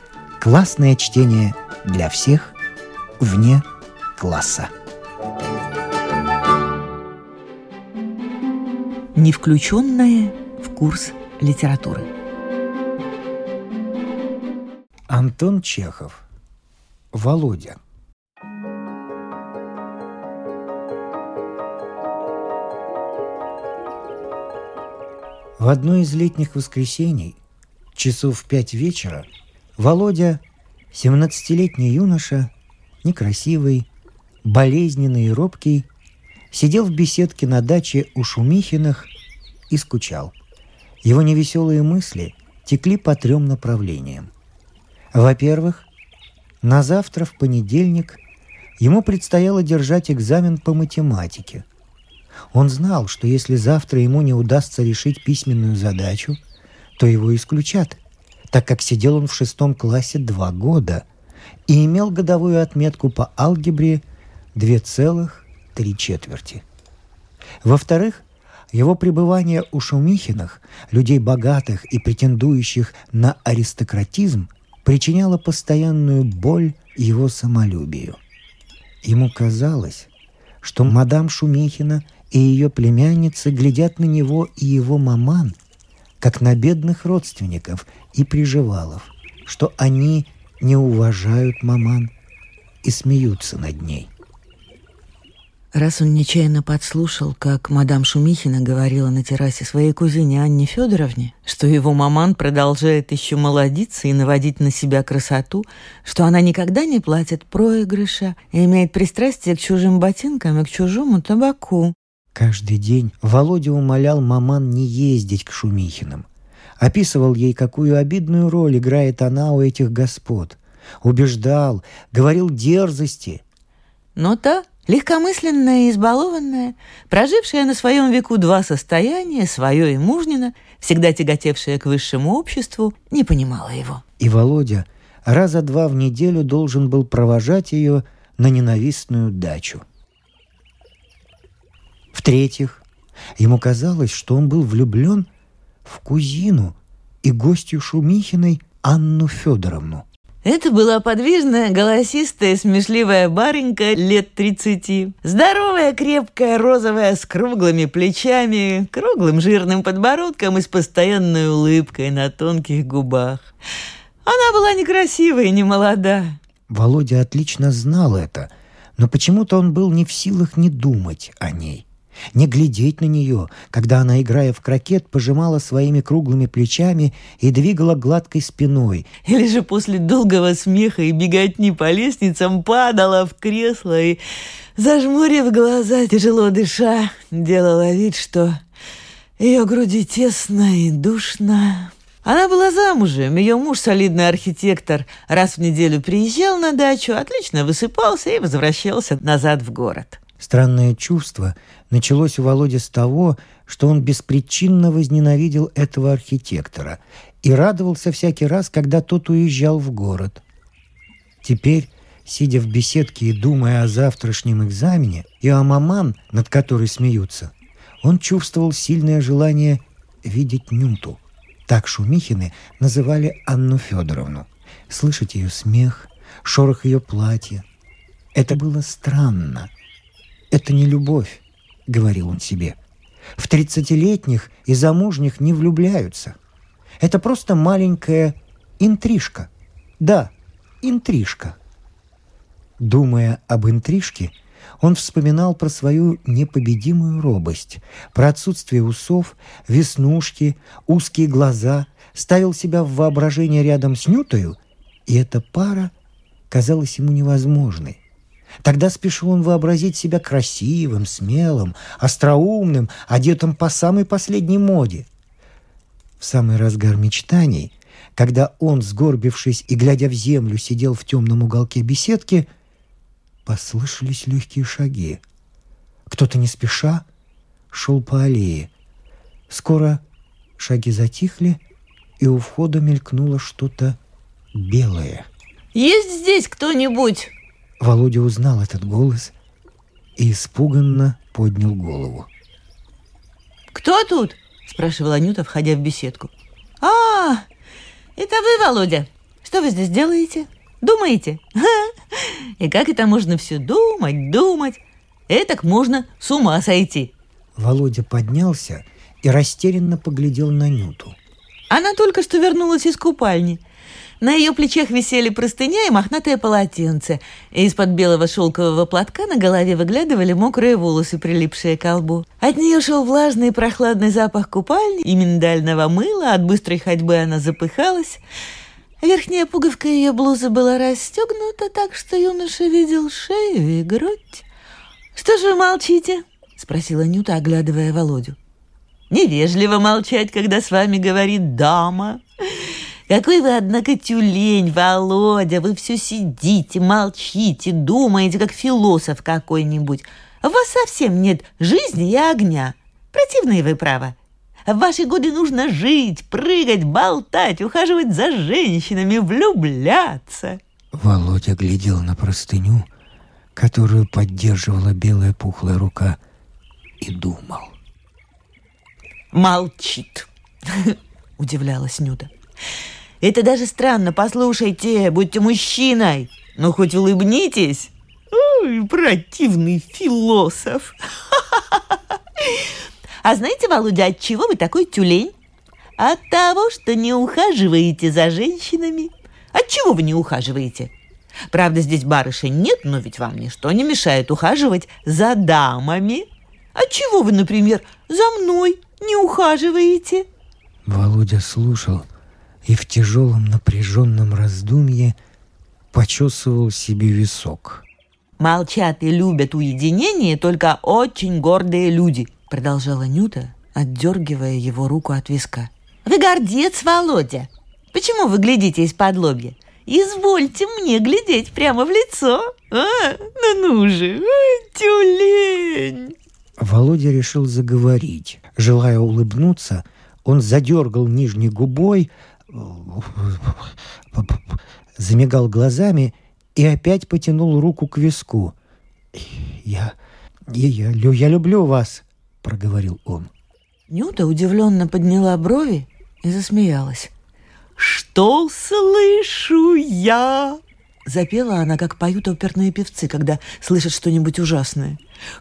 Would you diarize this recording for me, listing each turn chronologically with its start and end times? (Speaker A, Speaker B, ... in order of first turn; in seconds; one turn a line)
Speaker A: 0.4-2.5
Speaker A: 3.2-3.6
Speaker A: 4.2-4.7
Speaker B: 9.1-12.1
Speaker A: 15.1-16.2
Speaker A: 17.1-17.8
Speaker A: 25.6-27.4
Speaker A: 27.9-32.5
Speaker A: 33.0-33.9
Speaker A: 34.4-35.9
Speaker A: 36.5-39.1
Speaker A: 39.7-40.3
Speaker A: 41.0-44.3
Speaker A: 45.1-45.9
Speaker A: 46.6-48.2
Speaker A: 48.8-51.6
Speaker A: 52.5-56.4
Speaker A: 57.0-58.0
Speaker A: 58.5-61.0
Speaker A: 61.7-64.0
Speaker A: 64.5-66.6
Speaker A: 67.6-78.2
Speaker A: 79.0-80.1
Speaker A: 80.6-85.6
Speaker A: 86.2-92.1
Speaker A: 92.8-94.1
Speaker B: 95.7-111.9
Speaker A: 112.3-116.2
Speaker A: 116.8-123.4
Speaker B: 124.2-134.0
Speaker A: 134.2-139.8
Speaker A: 142.1-142.8
Speaker A: 143.4-145.3
Speaker A: 145.8-150.0
Speaker B: 150.4-163.5
Speaker B: 164.2-166.4
Speaker A: 166.7-179.1
Speaker B: 179.2-184.2
Speaker B: 184.8-188.6
Speaker B: 189.4-200.2
Speaker A: 200.4-210.4
Speaker A: 211.4-227.7
Speaker A: 228.3-229.7
Speaker A: 230.5-232.8
Speaker A: 233.3-236.4
Speaker A: 237.0-241.6
Speaker A: 242.8-255.9
Speaker A: 256.5-258.0
Speaker A: 258.6-265.1
Speaker A: 266.2-272.5
Speaker A: 273.4-275.2
Speaker A: 276.1-277.0
Speaker A: 277.7-278.7
Speaker A: 279.5-280.0
Speaker A: 280.6-281.6
Speaker A: 282.2-284.0
Speaker A: 284.5-285.3
Speaker B: 285.7-287.3
Speaker A: 287.8-289.3
Speaker A: 290.2-292.3
Speaker B: 293.7-297.4
Speaker B: 298.1-307.1
Speaker A: 307.6-311.2
Speaker B: 311.7-313.6
Speaker B: 314.2-328.2
Speaker B: 329.0-334.4
Speaker B: 335.1-338.4
Speaker B: 339.1-354.1
Speaker B: 354.7-360.6
Speaker A: 360.9-362.9
Speaker A: 363.6-366.2
Speaker A: 367.0-367.8
Speaker B: 369.3-372.3
Speaker B: 373.2-385.3
Speaker B: 386.0-390.9
Speaker B: 391.5-400.2
Speaker A: 400.9-402.1
Speaker A: 402.6-405.1
Speaker A: 405.9-407.8
Speaker B: 408.4-426.1
Speaker A: 426.6-438.5
Speaker A: 439.1-439.9
Speaker A: 440.5-443.3
Speaker B: 443.9-447.1
Speaker B: 447.8-455.0